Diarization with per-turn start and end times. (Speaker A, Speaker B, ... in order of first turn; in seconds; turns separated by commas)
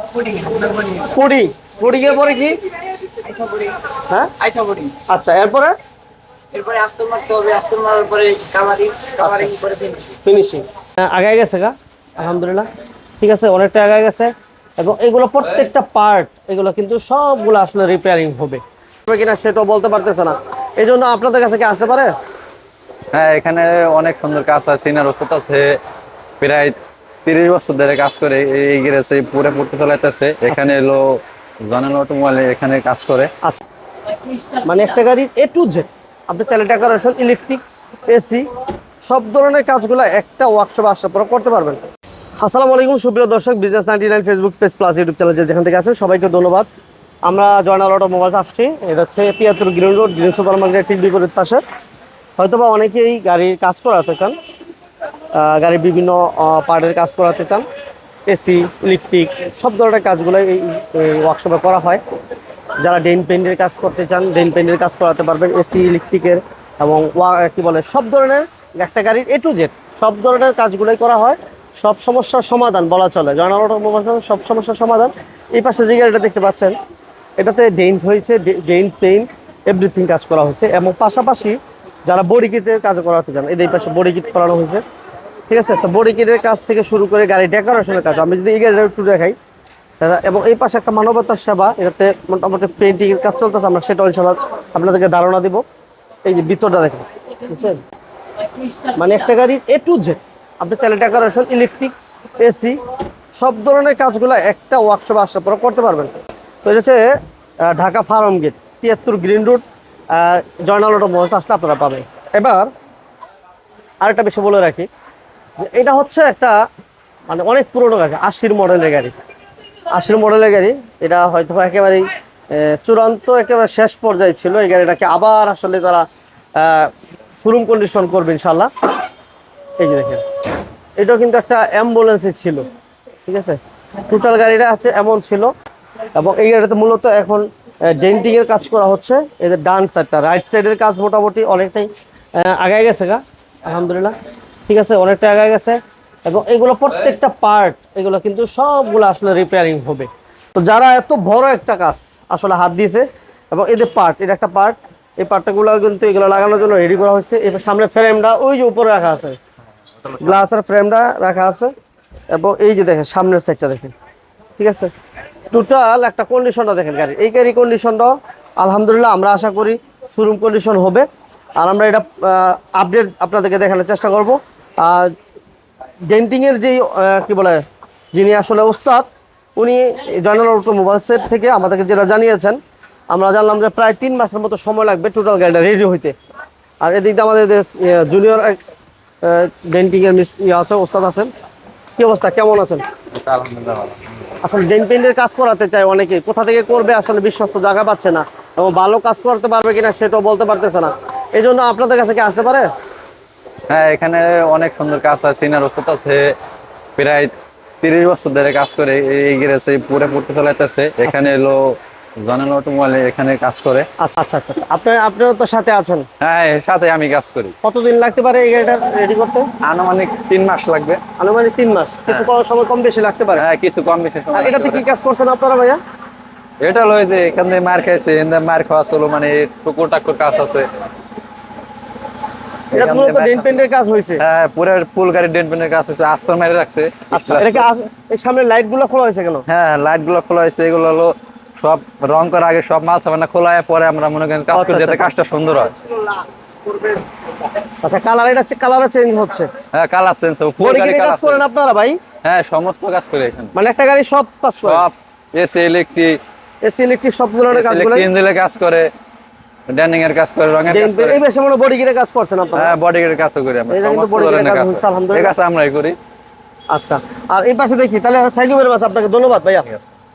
Speaker A: 0.9-2.5, Speaker B: 3.3-3.7, Speaker A: 4.1-4.3, Speaker B: 4.4-4.9, Speaker A: 5.1-5.7, Speaker B: 6.5-10.2, Speaker A: 9.2-9.6, Speaker A: 10.2-12.7, Speaker A: 13.2-22.1, Speaker C: 23.1-25.7, Speaker C: 26.4-31.1, Speaker C: 31.7-33.3, Speaker A: 34.6-38.5, Speaker A: 39.0-41.8, Speaker A: 42.4-46.7, Speaker A: 47.3-51.6, Speaker A: 52.4-54.3, Speaker A: 55.3-57.7, Speaker A: 58.3-62.0, Speaker A: 62.8-76.8, Speaker A: 77.4-84.8, Speaker A: 85.5-89.3, Speaker A: 90.0-95.6, Speaker A: 96.2-97.8, Speaker A: 99.0-102.8, Speaker A: 103.3-106.1, Speaker A: 106.6-112.7, Speaker A: 114.0-114.9, Speaker A: 115.6-116.6, Speaker A: 117.3-119.1, Speaker A: 119.9-126.1, Speaker A: 126.6-126.9, Speaker A: 127.4-128.7, Speaker A: 129.8-130.2, Speaker A: 131.0-132.7, Speaker A: 133.2-135.5, Speaker A: 136.2-144.1, Speaker A: 144.7-159.4, Speaker A: 160.2-161.7, Speaker A: 162.3-163.9, Speaker A: 164.6-164.9, Speaker A: 165.5-171.1, Speaker A: 171.6-175.1, Speaker A: 176.1-182.6, Speaker A: 183.1-186.1, Speaker A: 186.8-188.6, Speaker A: 189.2-191.3, Speaker A: 192.0-192.8, Speaker C: 193.1-194.2, Speaker A: 194.4-202.7, Speaker C: 203.7-206.3, Speaker C: 207.0-213.8, Speaker A: 214.0-216.1, Speaker C: 216.2-217.5, Speaker A: 217.6-219.5, Speaker C: 219.6-221.0, Speaker A: 221.2-223.4, Speaker C: 223.3-224.8, Speaker A: 224.3-225.8, Speaker C: 226.6-230.7, Speaker C: 232.7-233.6, Speaker A: 232.7-234.2, Speaker C: 234.2-237.7, Speaker A: 237.1-239.4, Speaker C: 239.5-245.8, Speaker A: 244.5-245.1, Speaker A: 246.7-247.0, Speaker A: 247.8-249.5, Speaker C: 249.7-251.4, Speaker A: 250.6-252.0, Speaker C: 252.2-253.5, Speaker A: 253.5-254.8, Speaker C: 254.6-256.2, Speaker A: 256.6-258.1, Speaker C: 257.5-258.9, Speaker C: 259.7-261.2, Speaker A: 260.7-262.8, Speaker C: 262.6-266.0, Speaker A: 263.7-265.3, Speaker A: 266.7-269.7